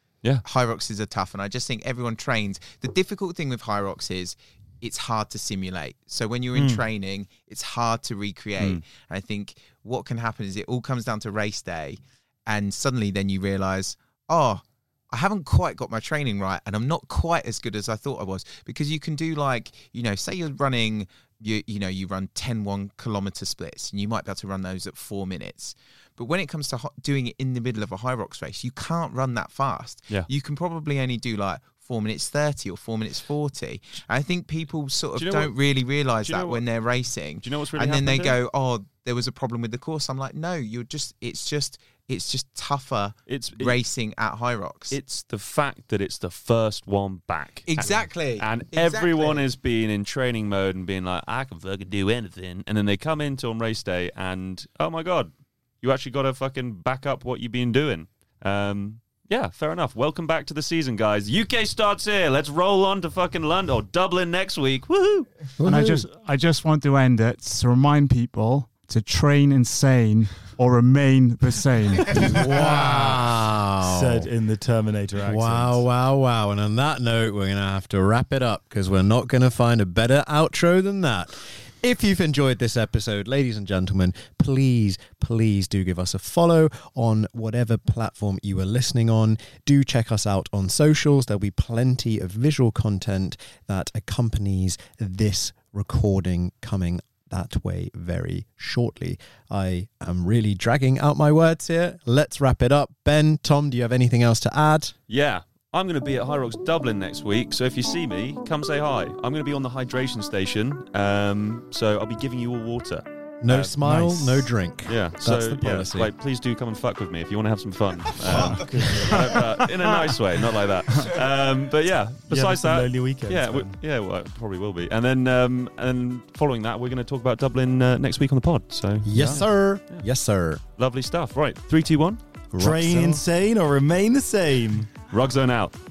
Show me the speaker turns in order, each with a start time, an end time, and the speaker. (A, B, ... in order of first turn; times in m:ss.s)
0:00.4-0:45.0 A
0:06.5-0:06.8 B
0:08.6-0:08.8 C
0:35.2-0:35.6 C
0:36.2-0:36.6 C
0:37.4-0:38.4 C
0:43.3-0:43.8 C
0:44.9-1:05.3 C
0:47.7-0:49.4 A
1:05.6-1:06.0 D
1:05.6-1:12.5 E
1:12.1-1:14.3 D
1:12.3-1:13.2 B
1:13.8-1:15.8 B
1:15.2-1:45.0 D
1:45.1-1:53.8 C
1:53.4-1:56.1 D
1:54.9-2:10.0 C
1:58.3-1:58.6 D
1:58.5-1:59.3 B
1:58.5-2:00.2 E
2:02.3-2:03.8 B
2:09.0-2:10.6 D
2:10.8-2:12.2 C
2:12.5-2:13.2 D
2:12.6-2:14.9 B
2:15.1-2:15.7 C